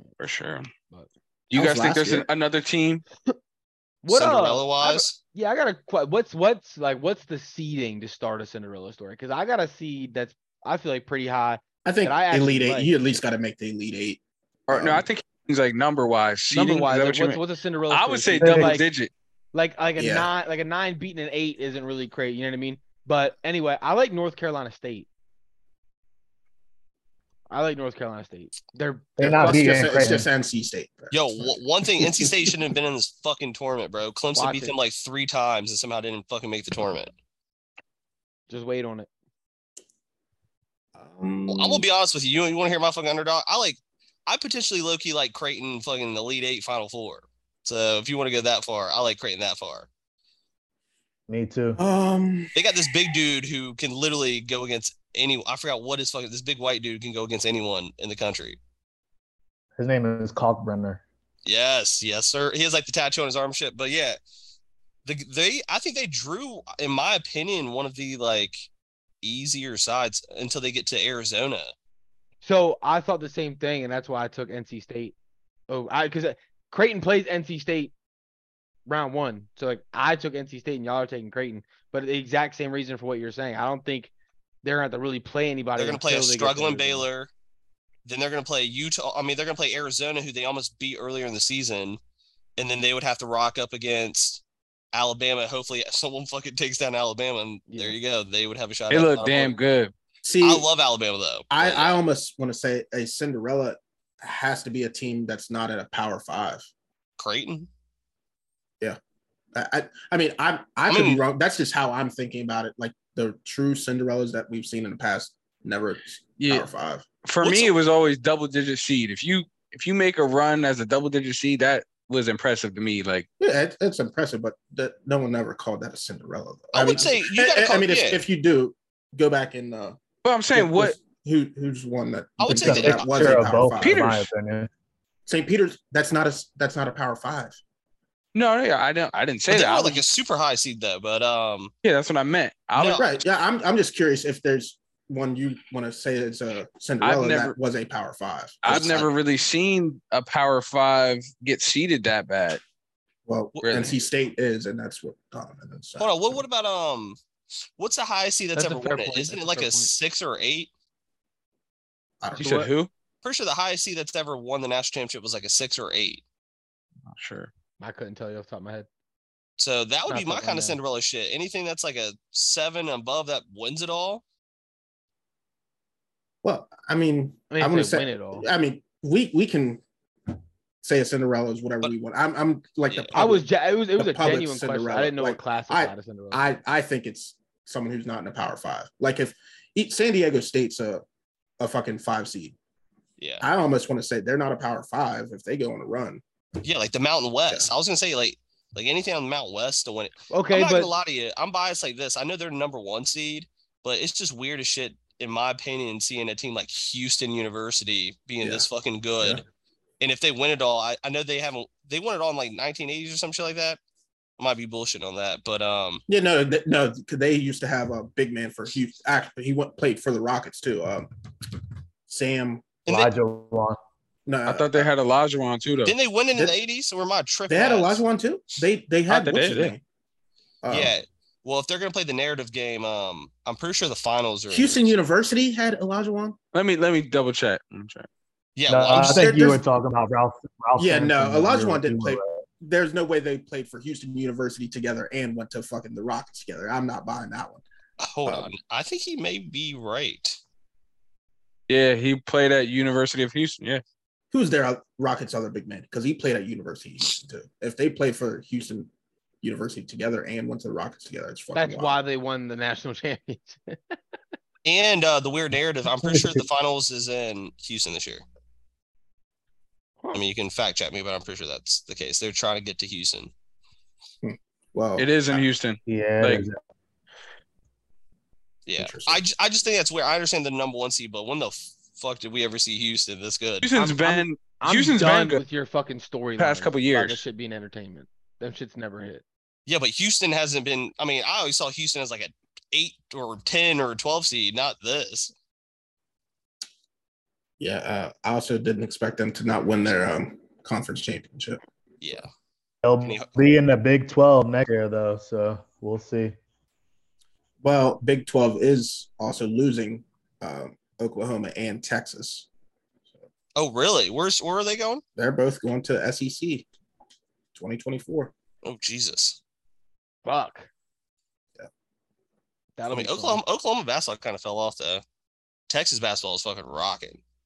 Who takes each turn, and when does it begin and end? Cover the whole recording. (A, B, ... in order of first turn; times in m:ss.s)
0:00.2-0:00.7 A
0:01.5-0:03.0 A
0:01.5-0:02.3 B
0:04.0-0:12.9 C
0:04.1-0:05.2 D
0:11.8-0:15.0 B
0:14.7-0:19.1 A
0:16.5-0:18.9 C
0:18.4-0:18.8 E
0:19.5-0:25.1 C
0:20.0-0:20.3 B
0:27.5-0:30.0 C
0:29.2-0:30.3 E
0:29.2-0:32.7 B
0:31.1-0:37.1 D
0:34.3-0:34.7 C
0:38.5-0:39.1 C
0:41.0-0:41.8 B
0:41.5-0:49.9 D
0:51.3-0:51.8 E
0:51.8-0:52.9 B
0:52.5-0:58.6 D
0:59.8-1:01.0 E
1:01.4-1:04.2 D
1:05.0-1:08.7 D
1:09.2-1:11.7 D
1:12.4-1:15.1 C
1:15.7-1:17.9 C
1:18.8-1:24.1 C
1:24.6-1:27.1 C
1:25.8-1:27.3 D
1:28.0-1:32.0 D
1:32.6-1:39.5 D
1:37.7-1:38.0 C
1:38.9-1:39.9 A
1:40.2-1:40.6 B
1:40.4-1:42.0 D
1:41.5-1:46.7 B
1:47.2-1:47.7 D
1:49.5-1:57.6 B
1:50.9-1:51.2 D
1:56.4-1:56.7 A
1:57.2-2:03.2 A
1:57.4-1:57.7 D
2:03.4-2:10.0 B
2:06.7-2:08.2 D
2:10.2-2:11.0 A
2:10.5-2:14.0 B
2:12.4-2:13.4 D
2:12.4-2:14.7 E
2:13.8-2:14.3 A
2:15.3-2:17.6 B
2:18.3-2:20.0 A
2:19.5-2:21.7 D
2:21.8-2:23.0 A
2:22.8-2:23.0 D
2:22.9-2:29.1 B
2:27.0-2:27.6 A
2:28.6-2:32.6 A
2:33.3-2:36.1 B
2:33.6-2:34.0 A
2:36.0-2:37.2 D
2:37.8-2:40.7 D
2:38.5-2:39.9 C
2:42.2-2:42.7 B
2:42.3-2:42.9 A
2:42.4-2:42.7 C
2:43.2-2:46.2 D
2:47.1-2:47.5 A
2:47.8-2:48.9 C
2:49.6-2:54.2 D
2:50.1-2:50.8 C
2:56.4-2:59.8 B
2:57.5-2:58.4 C
3:00.8-3:11.0 B
3:02.9-3:03.3 D
3:03.1-3:06.4 C
3:11.6-3:12.5 B
3:13.2-3:13.5 D
3:13.4-3:16.2 B
3:16.6-3:29.4 D
3:20.3-3:20.9 C
3:28.4-3:28.7 B
3:30.0-3:33.8 D
3:34.4-3:36.0 D
3:36.1-3:41.1 B
3:42.1-3:42.7 B
3:42.8-3:43.1 D
3:42.9-3:43.8 E
3:44.2-3:44.9 B
3:44.5-3:45.9 A
3:45.8-3:48.0 D
3:47.5-3:49.8 B
3:49.1-3:49.7 A
3:50.6-3:50.9 B
3:50.7-3:54.9 D
3:54.5-3:56.4 B
3:56.5-3:58.1 A
3:58.6-3:59.2 D
3:58.7-4:02.4 E
3:59.0-3:59.6 B
4:00.8-4:07.6 B
4:08.0-4:10.4 D
4:08.2-4:08.5 B
4:11.7-4:13.8 A
4:14.3-4:18.9 B
4:19.4-4:22.0 B
4:21.5-4:23.9 C
4:24.6-4:28.2 D
4:30.1-4:33.3 D
4:34.2-4:35.5 B
4:35.0-4:36.4 A
4:35.9-4:36.6 E
4:38.7-4:43.7 D
4:38.8-4:39.2 B
4:43.6-4:45.4 A
4:43.7-4:49.2 C
4:46.4-4:47.2 A
4:49.7-4:55.3 D
4:57.6-5:01.6 B
5:02.0-5:02.3 D
5:02.8-5:06.4 E
5:03.0-5:03.3 D
5:07.6-5:12.5 B
5:13.5-5:15.0 D
5:15.2-5:16.6 B
5:17.5-5:18.3 B
5:18.6-5:19.4 D
5:20.2-5:20.7 C
5:22.8-5:23.4 C
5:22.9-5:25.0 D
5:25.7-5:27.2 D